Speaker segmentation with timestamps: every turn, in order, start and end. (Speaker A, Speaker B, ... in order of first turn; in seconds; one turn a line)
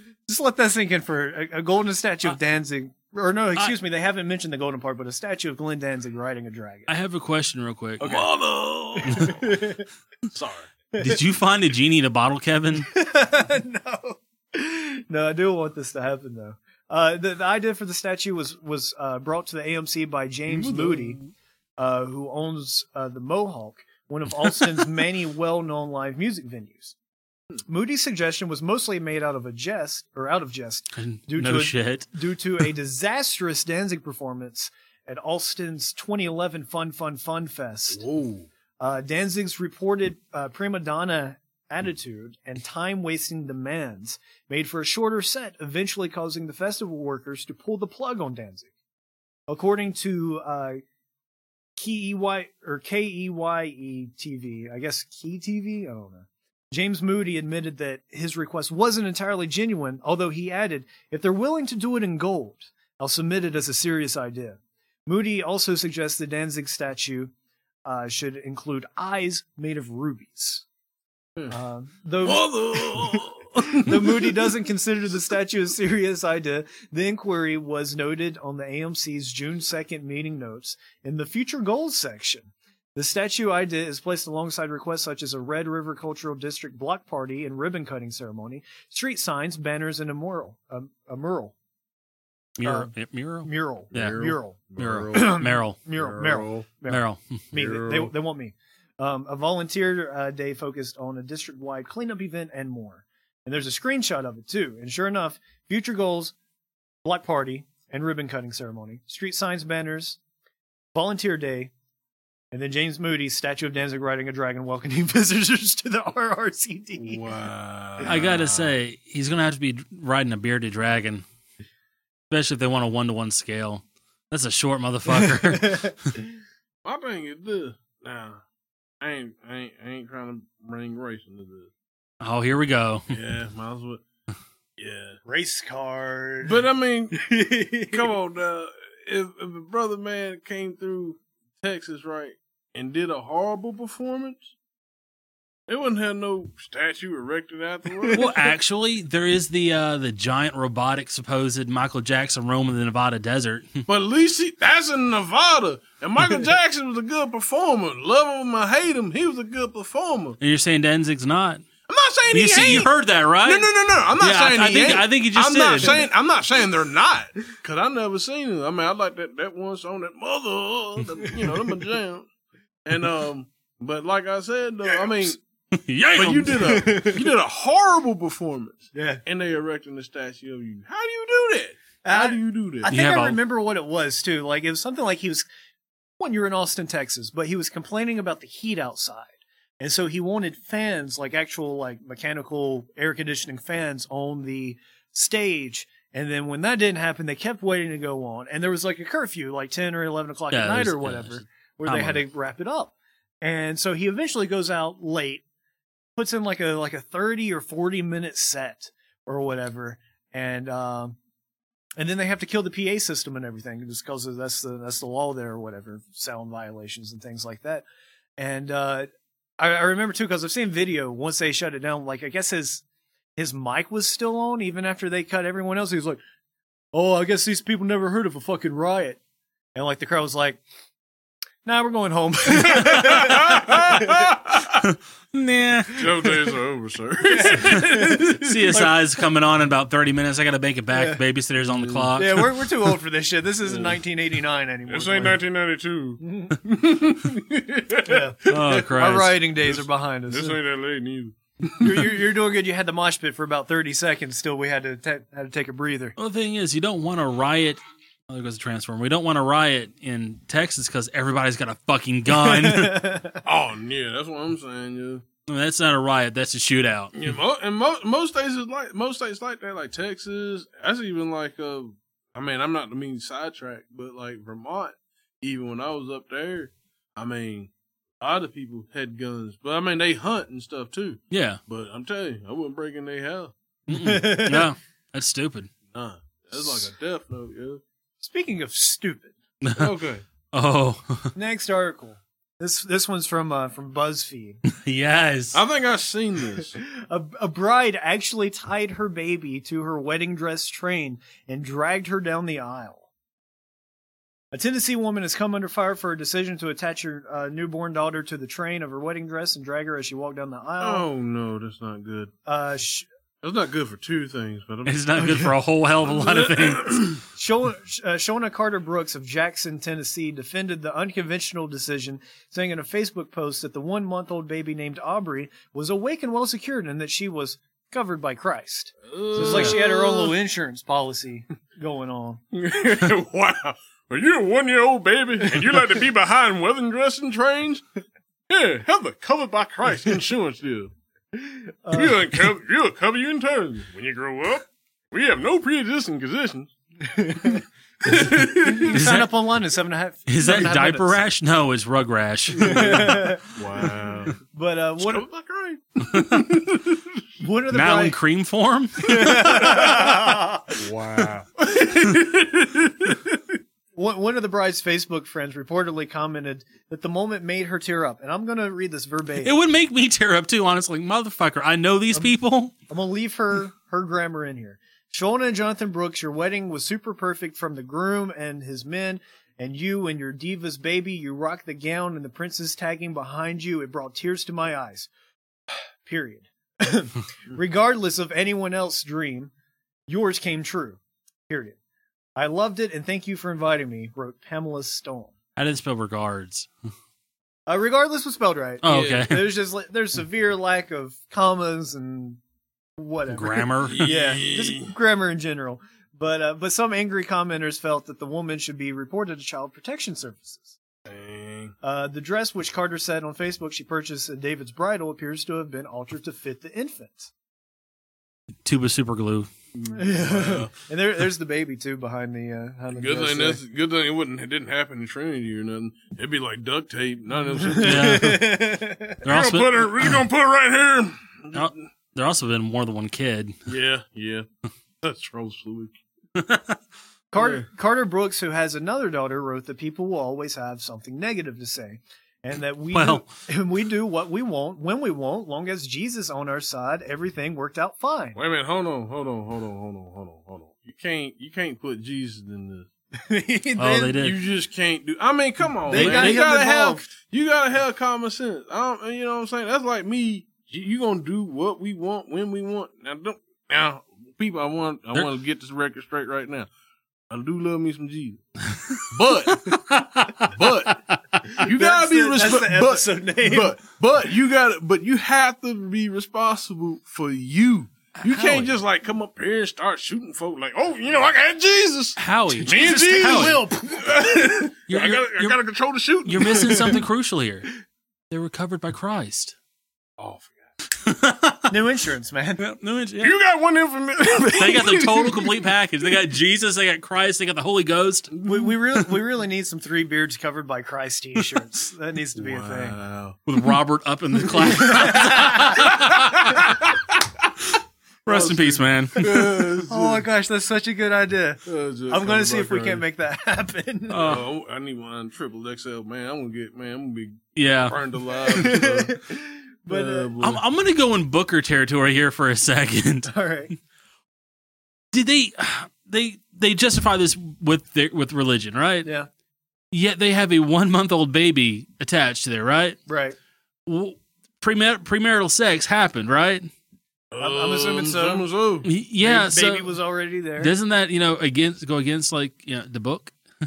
Speaker A: 0.3-6.9
Speaker B: 6.9-8.3
Speaker C: 8.0-9.5
Speaker B: 9.0-9.3
Speaker A: 9.1-9.8
Speaker C: 10.3-10.7
Speaker A: 10.9-11.2
Speaker B: 11.0-12.9
Speaker A: 12.8-21.2
Speaker B: 20.5-21.0
Speaker A: 21.8-26.9
Speaker B: 24.4-24.8
Speaker A: 27.7-38.0
Speaker B: 30.9-32.1
Speaker C: 37.9-38.5
Speaker A: 38.8-48.7
Speaker A: 49.5-50.8
Speaker A: 51.8-67.3
Speaker A: 67.8-70.6
Speaker A: 71.5-91.5
Speaker C: 72.2-74.6
Speaker B: 92.6-95.8
Speaker A: 92.6-94.6
Speaker C: 93.9-96.7
Speaker A: 95.1-106.3
Speaker B: 96.9-97.4
Speaker C: 97.5-98.1
Speaker A: 107.0-110.2
Speaker A: 110.9-111.7
Speaker A: 112.5-117.2
Speaker C: 117.0-118.7
Speaker B: 118.0-121.2
Speaker B: 122.3-126.1
Speaker A: 125.1-126.3
Speaker C: 126.8-128.4
Speaker C: 129.0-131.7
Speaker B: 132.2-133.2
Speaker C: 133.1-134.0
Speaker C: 134.8-135.2
Speaker A: 135.2-136.6
Speaker C: 136.4-137.3
Speaker A: 137.1-138.0
Speaker C: 137.8-144.5
Speaker C: 145.7-148.3
Speaker A: 148.0-148.3
Speaker B: 148.1-153.8
Speaker C: 153.9-160.4
Speaker B: 160.4-161.6
Speaker C: 161.9-172.3
Speaker B: 162.3-166.0
Speaker A: 171.2-171.8
Speaker C: 172.8-175.4
Speaker B: 175.7-176.8
Speaker C: 176.1-182.9
Speaker A: 176.5-177.3
Speaker A: 178.9-179.2
Speaker A: 182.0-185.4
Speaker B: 182.9-183.4
Speaker A: 186.2-205.4
Speaker B: 200.5-202.2
Speaker A: 206.2-211.2
Speaker A: 212.0-217.8
Speaker A: 218.4-219.1
Speaker A: 219.6-222.8
Speaker A: 223.3-226.2
Speaker A: 226.9-229.2
Speaker A: 229.7-230.6
Speaker A: 231.6-234.4
Speaker C: 232.5-234.8
Speaker B: 234.9-236.2
Speaker C: 235.9-238.2
Speaker A: 237.3-239.0
Speaker B: 237.7-242.4
Speaker A: 240.9-241.2
Speaker C: 241.7-242.2
Speaker A: 242.2-245.4
Speaker C: 243.6-244.0
Speaker C: 244.9-248.9
Speaker A: 246.2-246.6
Speaker A: 248.0-250.6
Speaker B: 248.5-249.4
Speaker C: 249.6-252.1
Speaker A: 251.8-256.1
Speaker B: 256.2-263.0
Speaker A: 262.3-263.4
Speaker C: 263.4-265.2
Speaker B: 265.5-267.1
Speaker C: 267.1-277.7
Speaker C: 278.2-283.5
Speaker B: 281.3-281.6
Speaker B: 283.9-285.7
Speaker A: 283.9-284.7
Speaker C: 285.9-287.8
Speaker A: 288.2-289.3
Speaker B: 289.6-289.9
Speaker C: 289.8-290.2
Speaker B: 290.5-291.3
Speaker A: 291.3-294.6
Speaker B: 294.7-295.6
Speaker C: 295.5-296.8
Speaker A: 296.8-303.0
Speaker A: 304.5-311.0
Speaker C: 310.8-312.3
Speaker A: 312.4-313.1
Speaker C: 313.4-315.0
Speaker B: 314.8-317.2
Speaker A: 315.1-315.5
Speaker C: 316.1-317.2
Speaker A: 317.3-332.4
Speaker C: 329.1-330.3
Speaker B: 329.4-329.8
Speaker C: 332.5-337.8
Speaker C: 338.5-340.9
Speaker A: 341.4-342.2
Speaker C: 341.9-346.7
Speaker A: 347.0-351.2
Speaker C: 347.3-349.0
Speaker B: 348.9-349.3
Speaker B: 350.3-353.2
Speaker C: 352.6-354.3
Speaker A: 352.6-353.9
Speaker A: 354.4-355.2
Speaker C: 355.0-357.0
Speaker B: 356.1-356.5
Speaker A: 357.4-358.2
Speaker B: 357.7-359.7
Speaker A: 359.0-360.8
Speaker C: 359.3-362.8
Speaker A: 361.7-362.4
Speaker A: 363.1-363.3
Speaker A: 363.9-369.5
Speaker B: 369.4-372.7
Speaker A: 372.9-385.1
Speaker A: 386.0-389.5
Speaker A: 390.1-391.8
Speaker A: 392.4-395.3
Speaker B: 395.6-396.7
Speaker A: 397.7-402.4
Speaker B: 398.8-399.4
Speaker C: 398.9-399.3
Speaker A: 403.0-410.8
Speaker B: 403.3-404.1
Speaker C: 403.9-404.9
Speaker C: 411.1-411.7
Speaker A: 411.8-417.3
Speaker B: 418.6-419.5
Speaker C: 419.7-420.7
Speaker A: 419.9-423.6
Speaker C: 422.9-428.3
Speaker A: 427.6-429.2
Speaker B: 427.8-428.6
Speaker C: 429.2-431.8
Speaker B: 429.2-430.2
Speaker B: 431.5-433.5
Speaker C: 433.7-434.4
Speaker C: 435.0-436.0
Speaker B: 436.4-436.8
Speaker A: 437.3-448.4
Speaker C: 437.4-437.6
Speaker B: 442.9-443.3
Speaker C: 448.4-452.9
Speaker A: 453.1-454.2
Speaker B: 453.8-454.4
Speaker C: 454.1-466.7
Speaker A: 455.9-457.1
Speaker B: 455.9-456.4
Speaker C: 467.3-468.4
Speaker B: 468.7-469.0
Speaker C: 468.9-469.8
Speaker B: 469.5-471.4
Speaker C: 470.4-471.0
Speaker A: 471.5-473.8
Speaker C: 471.5-486.9
Speaker B: 478.2-478.8
Speaker B: 482.2-483.6
Speaker A: 482.6-484.7
Speaker B: 484.9-485.6
Speaker B: 486.2-487.7
Speaker A: 486.6-486.9
Speaker B: 488.3-489.5
Speaker C: 490.2-490.6
Speaker B: 490.9-491.8
Speaker A: 491.7-492.6
Speaker B: 492.6-493.3
Speaker C: 493.2-495.7
Speaker B: 494.5-498.3
Speaker C: 498.3-498.7
Speaker A: 498.4-503.0
Speaker C: 502.4-503.4
Speaker B: 503.5-506.6
Speaker C: 504.5-505.1
Speaker A: 504.7-505.8
Speaker C: 505.7-507.0
Speaker B: 507.6-509.6
Speaker C: 508.3-510.2
Speaker A: 509.9-514.4
Speaker C: 511.6-513.0
Speaker B: 514.1-514.5
Speaker C: 514.2-519.2
Speaker B: 517.5-518.0
Speaker A: 518.5-520.3
Speaker C: 519.9-520.6
Speaker B: 520.4-523.3
Speaker A: 523.3-523.7
Speaker B: 525.1-529.1
Speaker B: 529.9-533.0
Speaker A: 533.1-533.4
Speaker B: 533.9-536.7
Speaker C: 537.3-538.9
Speaker A: 537.4-538.5
Speaker B: 538.8-539.9
Speaker A: 539.2-540.7
Speaker B: 540.6-543.3